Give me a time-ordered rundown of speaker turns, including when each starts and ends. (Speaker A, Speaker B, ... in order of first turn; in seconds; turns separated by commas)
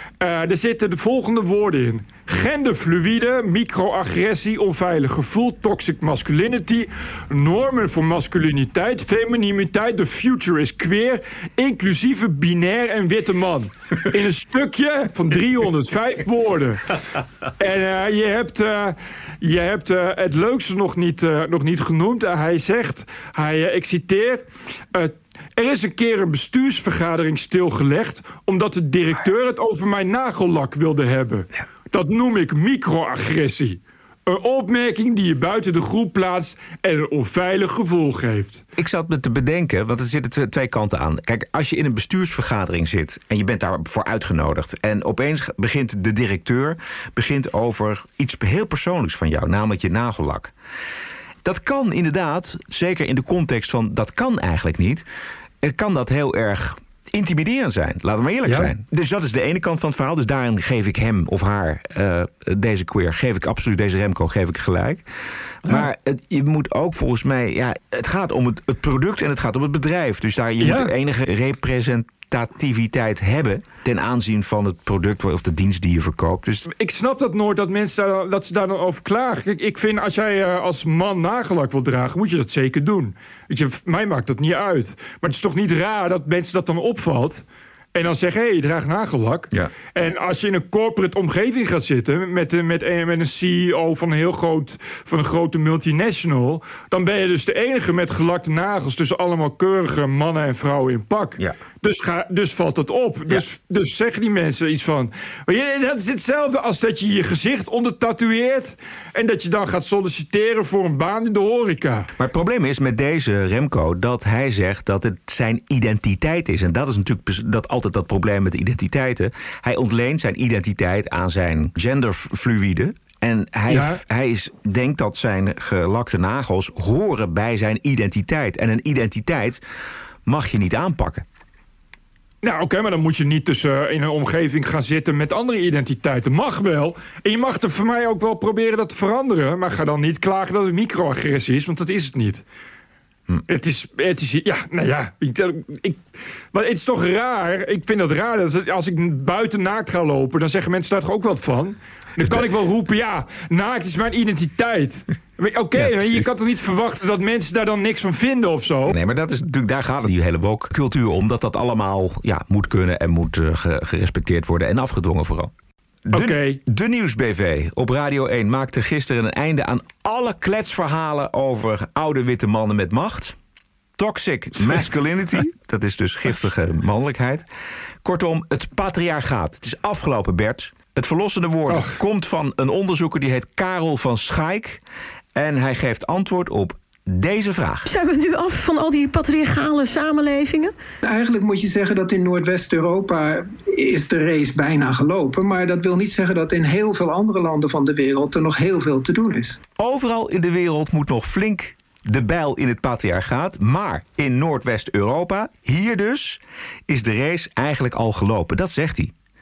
Speaker A: 0.2-16.9, Speaker A: 17.6-38.6, Speaker B: 38.8-50.5, Speaker B: 51.4-55.0, Speaker B: 55.6-65.0, Speaker A: 58.5-58.7, Speaker B: 65.7-76.7, Speaker A: 70.6-70.9, Speaker A: 76.7-87.4, Speaker A: 88.0-112.1, Speaker B: 112.2-129.6, Speaker A: 123.7-124.0, Speaker B: 130.3-131.2, Speaker A: 132.4-142.4, Speaker A: 143.5-146.0, Speaker A: 146.5-159.0, Speaker B: 152.2-152.5, Speaker B: 155.8-156.3, Speaker B: 158.9-165.5, Speaker B: 166.1-173.4, Speaker A: 166.1-166.6, Speaker B: 174.0-177.4, Speaker B: 178.0-184.8, Speaker A: 181.7-182.0, Speaker B: 185.3-187.9, Speaker C: 187.8-190.8, Speaker D: 191.0-199.6, Speaker B: 199.8-209.1